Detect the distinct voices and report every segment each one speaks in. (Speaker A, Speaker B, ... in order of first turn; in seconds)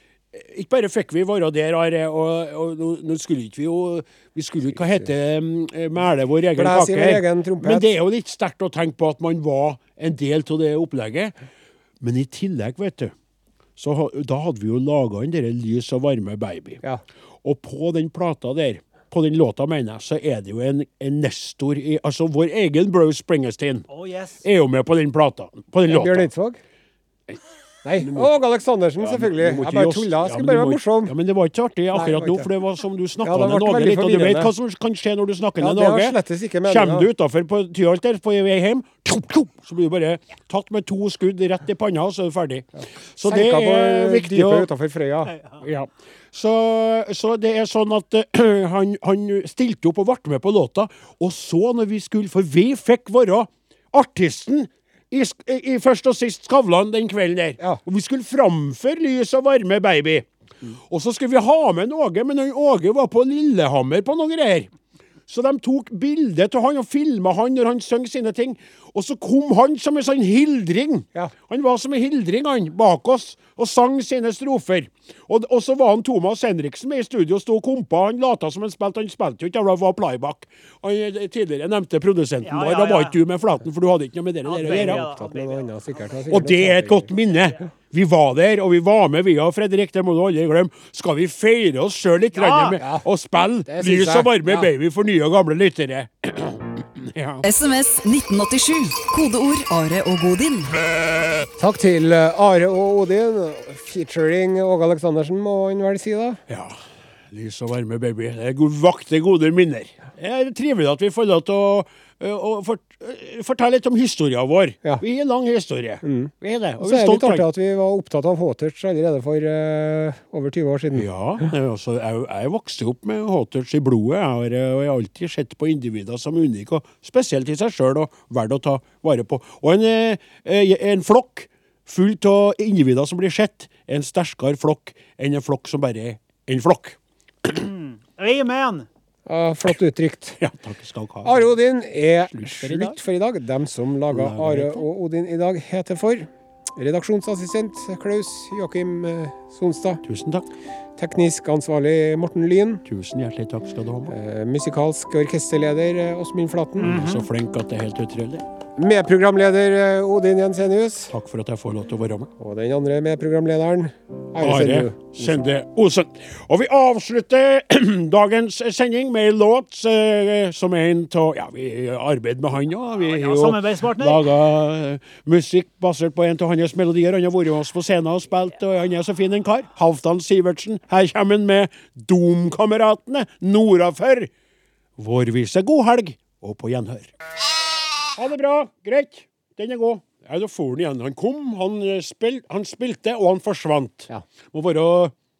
Speaker A: 0.3-11.3, 12.0-13.1, 13.8-16.8, 17.4-23.9, 24.4-26.3, 28.0-28.3, 29.0-44.7, 45.6-60.2, 60.9-64.7, 65.3-85.1, 86.3-97.4, 106.5-106.8, 107.3-117.5, 120.9-137.5, 140.4-141.6, 142.2-143.0, 144.1-144.8, 150.0-150.5, 152.8-154.1, 156.8-158.4, 161.1-162.3, 164.4-184.3, 185.0-187.1, 188.1-195.1
Speaker B: 6.5-7.9, 25.9-26.6, 27.8-31.1, 31.9-32.5, 33.2-34.5, 35.6-37.1, 43.2-45.3, 84.6-87.1, 92.8-93.0, 93.6-94.7, 101.6-106.4, 116.0-121.1, 139.2-140.4, 141.2-150.0, 151.0-152.8, 154.1-157.2, 158.8-161.1, 162.4-165.4
Speaker C: 23.9-24.4, 82.4-83.2, 84.4-86.3, 92.3-92.8, 137.4-138.9, 173.0-174.3
Speaker D: 97.4-100.8